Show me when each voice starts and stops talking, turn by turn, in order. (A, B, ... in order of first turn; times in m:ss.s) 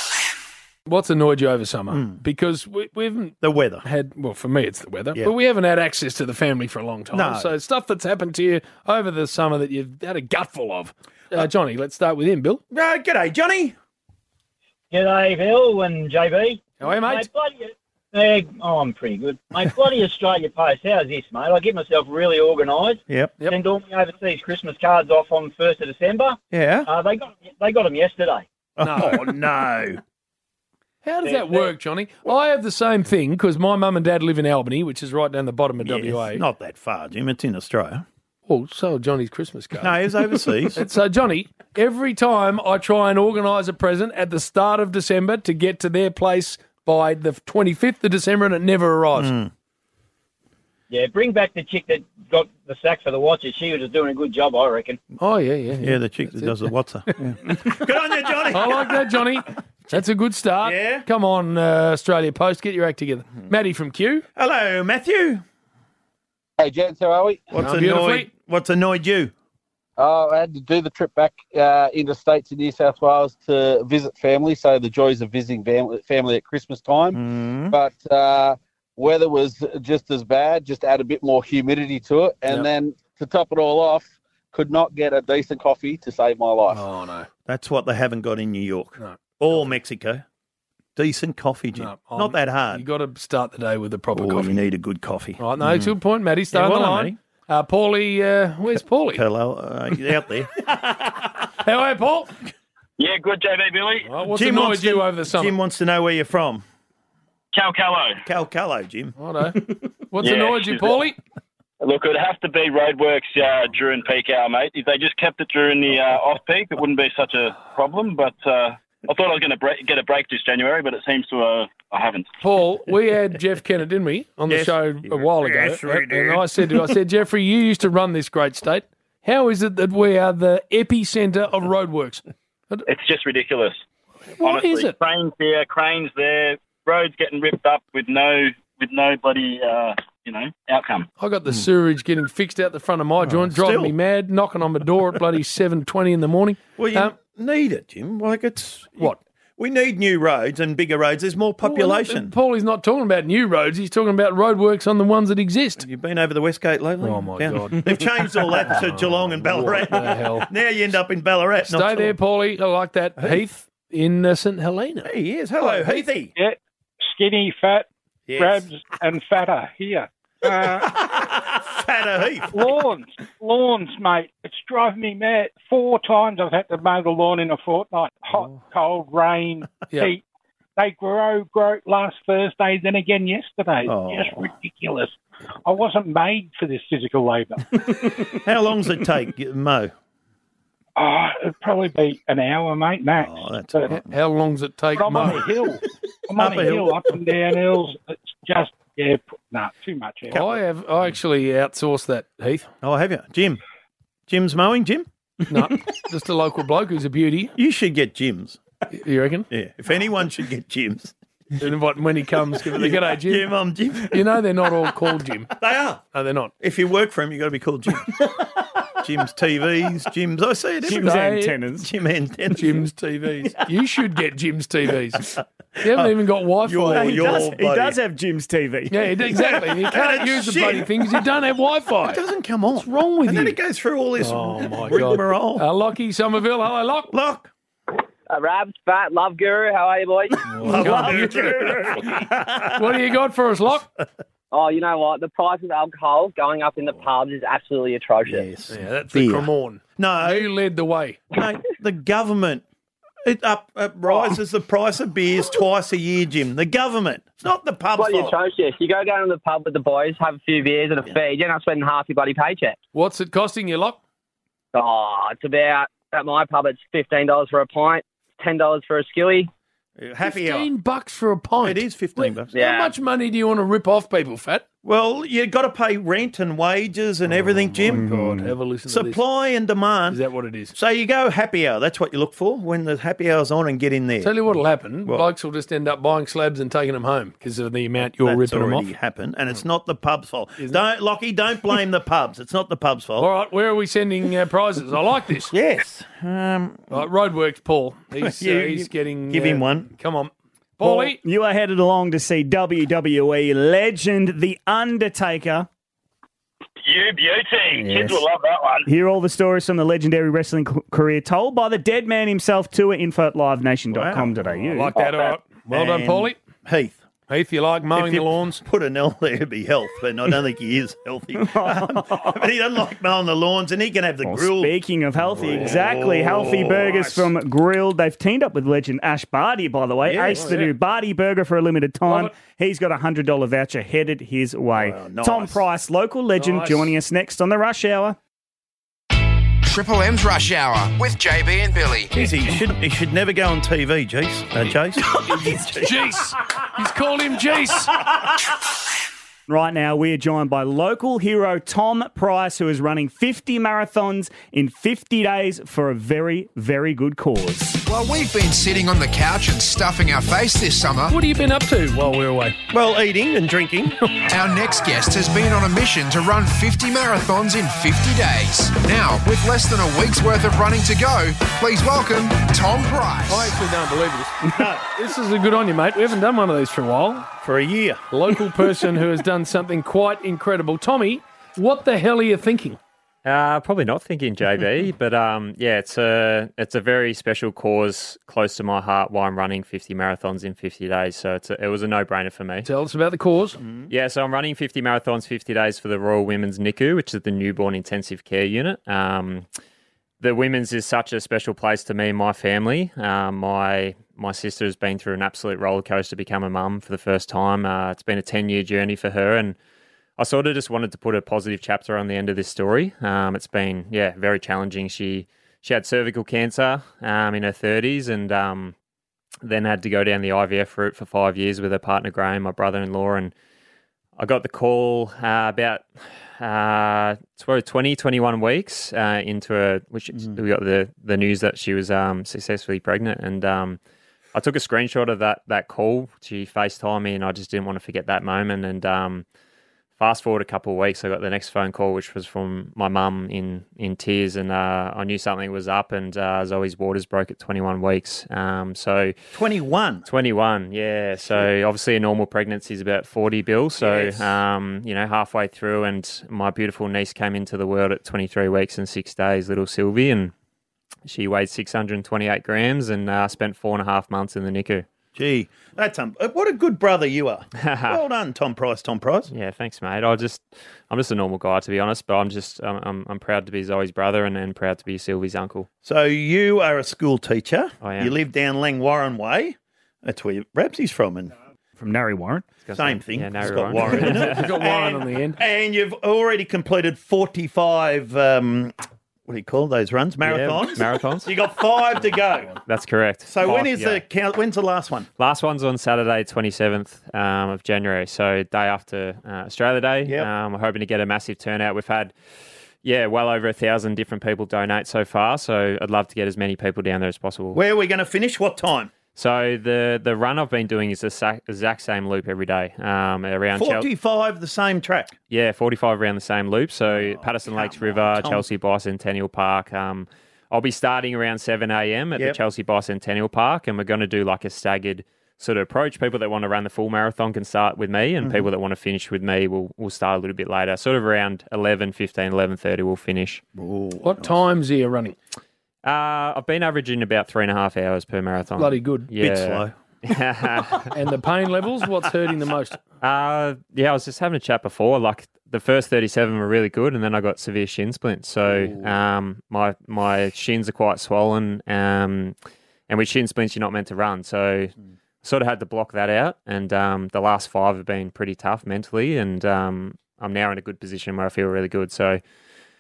0:00.9-0:12.6 A
0:01.9-0:02.2 B
0:03.4-0:03.8 B
0:07.1-0:07.5 B
0:12.7-0:13.8 B
0:14.9-0:28.4 C
0:16.8-0:17.3 A
0:23.1-0:23.4 B
0:26.5-0:26.9 B
0:28.8-0:30.0 B
0:28.8-0:29.3 A
0:31.0-0:36.4 A
0:31.2-0:31.7 C
0:35.8-0:38.0 B
0:38.5-0:49.3 A
0:39.8-0:40.8 B
0:49.2-0:49.5 B
0:50.9-0:55.0 C
0:55.2-0:57.2 A
0:55.8-0:59.2 B
0:58.5-1:04.2 A
1:00.6-1:01.0 B
1:04.4-1:05.4 B
1:06.6-1:07.5 D
1:07.5-1:09.3 B
1:07.6-1:08.3 A
1:10.0-1:17.2 D
1:17.1-1:17.7 B
1:17.7-1:26.8 D
1:26.7-1:27.3 A
1:27.5-1:30.2 B
1:29.0-1:29.6 A
1:31.0-1:32.8 B
1:31.7-1:34.6 A
1:34.1-1:36.0 B
1:35.4-1:39.2 A
1:36.5-1:37.2 B
1:39.1-1:40.6 B
1:41.6-1:42.3 A
1:43.0-1:44.1 E
1:44.1-1:45.6 A
1:44.3-1:46.6 B
1:47.5-1:48.2 E
1:48.2-1:49.1 B
1:49.2-1:51.2 A
1:50.2-1:51.0 E
1:51.8-2:02.3 E
2:02.4-2:12.8 A
2:04.5-2:06.4 B
2:12.9-2:13.8 E
2:14.4-2:15.0 A
2:14.4-2:21.0 E
2:21.2-2:27.1 A
2:23.2-2:23.9 B
2:26.8-2:32.3 B
2:31.6-2:35.8 A
2:35.8-2:42.1 B
2:37.0-2:37.9 A
2:38.5-2:40.5 A
2:41.6-2:45.1 A
2:45.0-2:46.3 B
2:45.6-2:51.0 F
2:48.3-2:48.7 B
2:50.6-2:52.7 B
2:52.5-3:00.2 F
2:58.3-2:58.6 B
3:00.8-3:07.8 F
3:03.9-3:04.5 B
3:08.3-3:09.9 B
3:11.0-3:14.0 F
3:13.2-3:14.0 B
3:13.9-3:15.5 A
3:14.9-3:20.4 F
3:16.4-3:17.0 B
3:20.3-3:22.7 A
3:22.8-3:23.6 B
3:24.3-3:25.0 B
3:25.5-3:27.6 A
3:27.6-3:28.6 B
3:28.9-3:29.5 A
3:29.5-3:31.1 B
3:31.6-3:35.5 A
3:32.7-3:34.2 B
3:35.6-3:36.0 B
3:36.1-3:36.5 A
3:36.6-3:38.2 B
3:39.0-3:41.2 B
3:40.8-3:41.9 G
3:40.9-3:41.6 A
3:41.8-3:42.8 B
3:42.5-3:45.3 A
3:45.3-3:48.0 B
3:45.8-3:47.5 A
3:46.9-3:49.1 G
3:48.9-3:52.2 A
3:49.3-3:51.2 B
3:52.0-3:55.6 B
3:52.7-3:53.6 A
3:54.2-3:57.1 A
3:57.1-3:57.5 B
3:58.3-4:00.4 H
4:00.5-4:01.6 A
4:00.6-4:02.7 B
4:00.6-4:02.6 G
4:02.7-4:03.9 A
4:04.5-4:08.5 H
4:08.3-4:10.5 B
4:08.7-4:11.2 A
4:11.3-4:12.6 B
4:13.2-4:18.4 B
4:18.0-4:22.8 H
4:22.9-4:24.0 A
4:24.7-4:29.5 H
4:30.0-4:30.7 B
4:30.2-4:34.6 A
4:31.6-4:32.5 B
4:32.5-4:32.9 H
4:34.8-4:38.1 B
4:37.5-4:39.2 A
4:37.9-4:38.5 G
4:38.9-4:40.2 B
4:40.1-4:40.7 A
4:40.7-4:44.3 B
4:44.2-4:48.9 A
4:48.2-4:53.3 B
4:53.2-4:55.5 A
4:55.5-4:57.0 B
4:56.9-5:01.2 A
4:58.2-4:59.9 B
5:00.8-5:05.7 G
5:06.8-5:08.9 E
5:07.8-5:08.2 G
5:08.9-5:15.0 G
5:13.9-5:14.4 B
5:14.7-5:16.4 A
5:15.7-5:17.0 B
5:17.3-5:18.6 A
5:18.0-5:24.7 B
5:21.4-5:22.4 G
5:24.2-5:38.2 G
5:25.4-5:27.3 B
5:30.0-5:30.6 B
5:30.3-5:30.7 A
5:32.1-5:32.3 A
5:34.7-5:35.6 B
5:36.4-5:36.9 A
5:39.6-5:42.1 I
5:42.1-5:46.0 B
5:42.2-5:42.6 A
5:45.1-5:48.0 A
5:49.5-5:57.8 G
5:57.8-6:01.2 I
6:01.1-6:02.6 A
6:02.7-6:04.0 B
6:04.3-6:13.5 I
6:13.3-6:17.3 A
6:14.6-6:14.8 B
6:17.4-6:18.0 B
6:18.1-6:22.8 A
6:23.2-6:32.7 J
6:32.6-6:33.6 A
6:33.6-6:33.9 B
6:33.9-6:39.5 J
6:40.2-6:49.6 J
6:50.2-6:58.7 J
6:59.4-7:03.3 J
7:04.2-7:05.8 J
7:06.4-7:13.8 J
7:14.3-7:19.2 J
7:20.0-7:29.1 J
7:29.3-7:30.0 B
7:30.0-7:40.3 J
7:33.8-7:34.4 B
7:41.0-7:44.9 J
7:45.1-7:49.3 B
7:47.6-7:48.0 J
7:49.3-7:55.7 J
7:55.8-8:01.3 B
7:57.8-7:58.2 J
8:01.8-8:02.6 G
8:02.6-8:04.4 J
8:02.7-8:08.8 B
8:03.8-8:05.4 A
8:09.3-8:12.6 B
8:10.2-8:11.3 J
8:12.6-8:14.0 J
8:13.3-8:15.1 B
8:15.2-8:22.1 J
8:20.0-8:20.3 B
8:22.8-8:27.6 J
8:27.5-8:28.9 B
8:29.1-8:33.9 J
8:33.5-8:35.2 B
8:35.3-8:53.4 J
8:36.8-8:38.4 B
8:48.2-8:48.5 B
8:53.6-8:54.4 B
8:54.0-8:55.2 A
8:55.8-9:00.9 J
8:58.6-8:59.1 A
8:59.1-8:59.7 B
9:00.9-9:02.8 A
9:03.0-9:12.4 J
9:12.9-9:22.2 J